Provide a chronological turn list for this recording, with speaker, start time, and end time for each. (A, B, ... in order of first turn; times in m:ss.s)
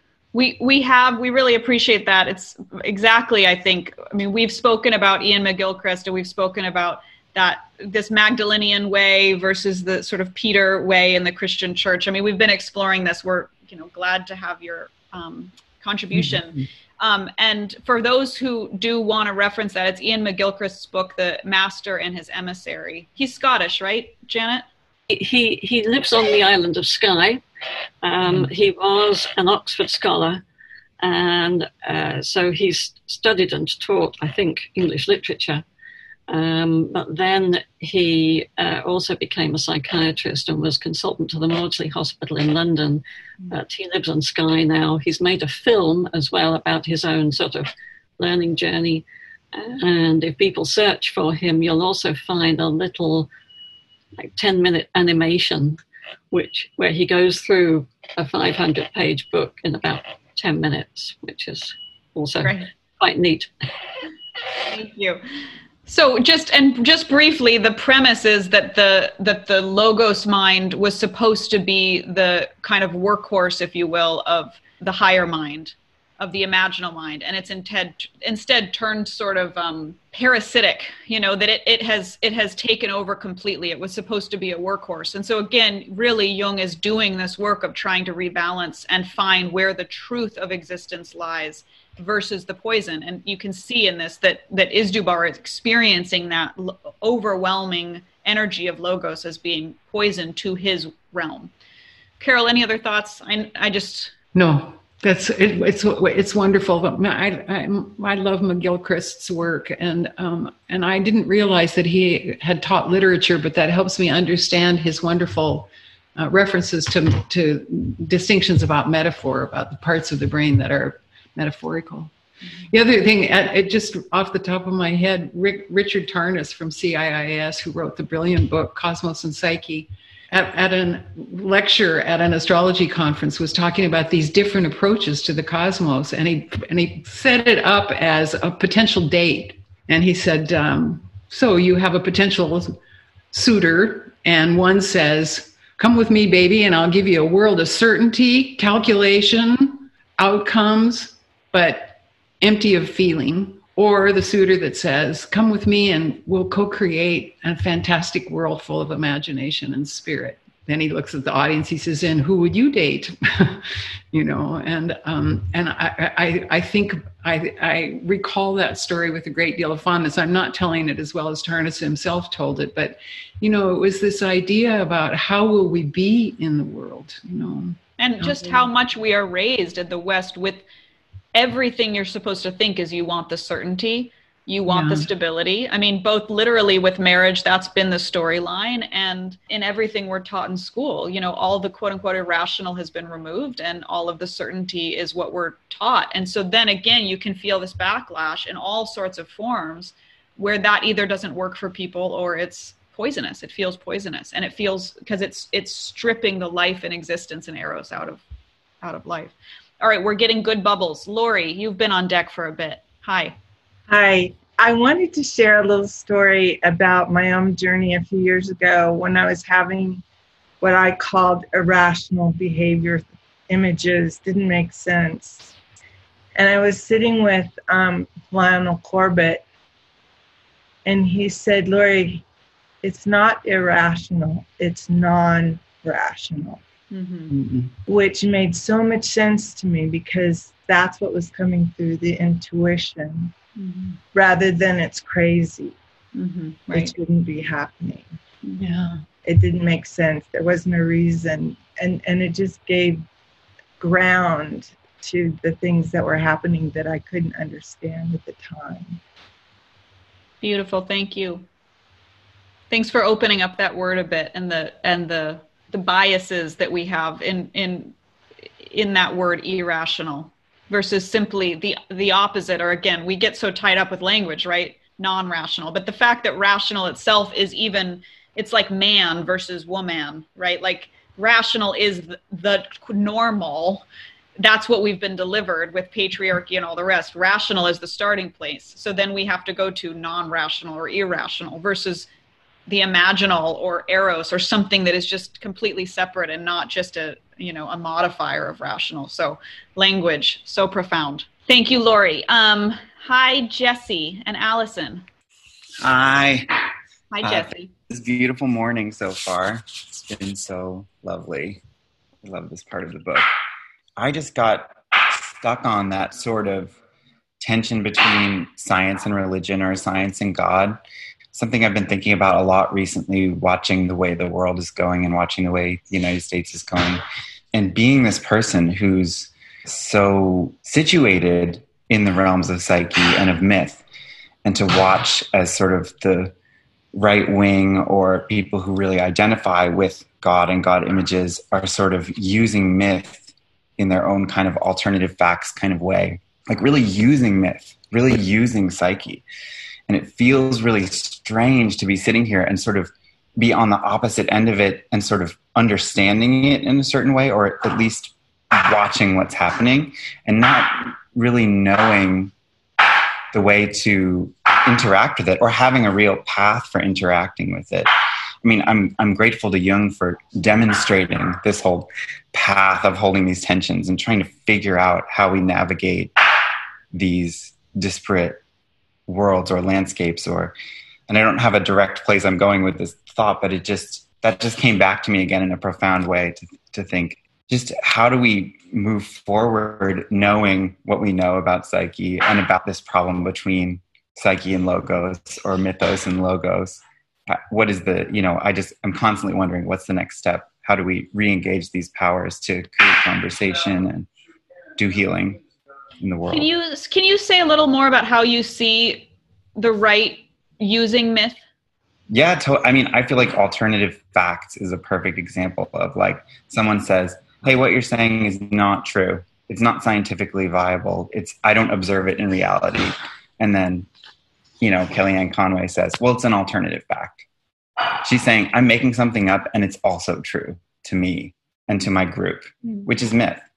0:00.3-0:24.6 A
0:25.1-0:27.4 B
0:28.0-0:30.4 B
0:31.0-0:35.6 B
0:36.3-0:53.3 B
0:54.2-0:55.8 B
0:56.3-1:03.6 B
1:02.4-1:02.7 A
1:04.7-1:05.2 A
1:05.9-1:41.5 A
1:42.2-1:44.1 A
1:44.3-2:02.1 C
2:02.7-2:22.8 C
2:23.3-2:58.7 C
2:58.0-3:00.6 A
3:01.3-3:28.2 A
3:04.7-3:05.1 C
3:28.8-3:33.4 A
3:33.9-3:40.0 D
3:40.6-3:45.6 D
3:46.4-3:49.4 D
3:50.8-3:52.2 D
3:52.8-3:56.6 D
3:56.9-3:57.4 A
3:57.3-3:57.7 C
3:57.9-4:03.3 D
4:03.6-4:04.0 A
4:04.1-4:05.8 D
4:06.2-4:06.9 A
4:06.7-4:08.1 D
4:08.6-4:09.0 C
4:09.2-4:13.0 D
4:13.8-4:19.0 D
4:20.4-4:21.4 A
4:22.7-4:27.9 A
4:28.6-4:43.8 A
4:44.4-4:52.1 A
4:52.7-5:05.0 A
5:05.8-5:06.5 E
5:07.1-5:07.7 A
5:07.2-5:11.6 E
5:12.2-5:13.2 E
5:14.0-5:16.8 E
5:17.4-5:20.8 E
5:21.3-5:27.0 E
5:27.5-5:33.8 E
5:34.4-5:36.3 E
5:36.9-5:49.2 E
5:49.9-6:02.3 E
6:03.3-6:07.9 E
6:08.4-6:16.1 E
6:16.9-6:18.4 E
6:19.1-6:20.5 E
6:21.1-6:44.1 E
6:44.8-6:45.4 E
6:46.0-6:46.5 E
6:46.3-6:51.4 A
6:52.1-7:03.9 E
7:04.6-7:07.2 E
7:08.0-7:13.4 E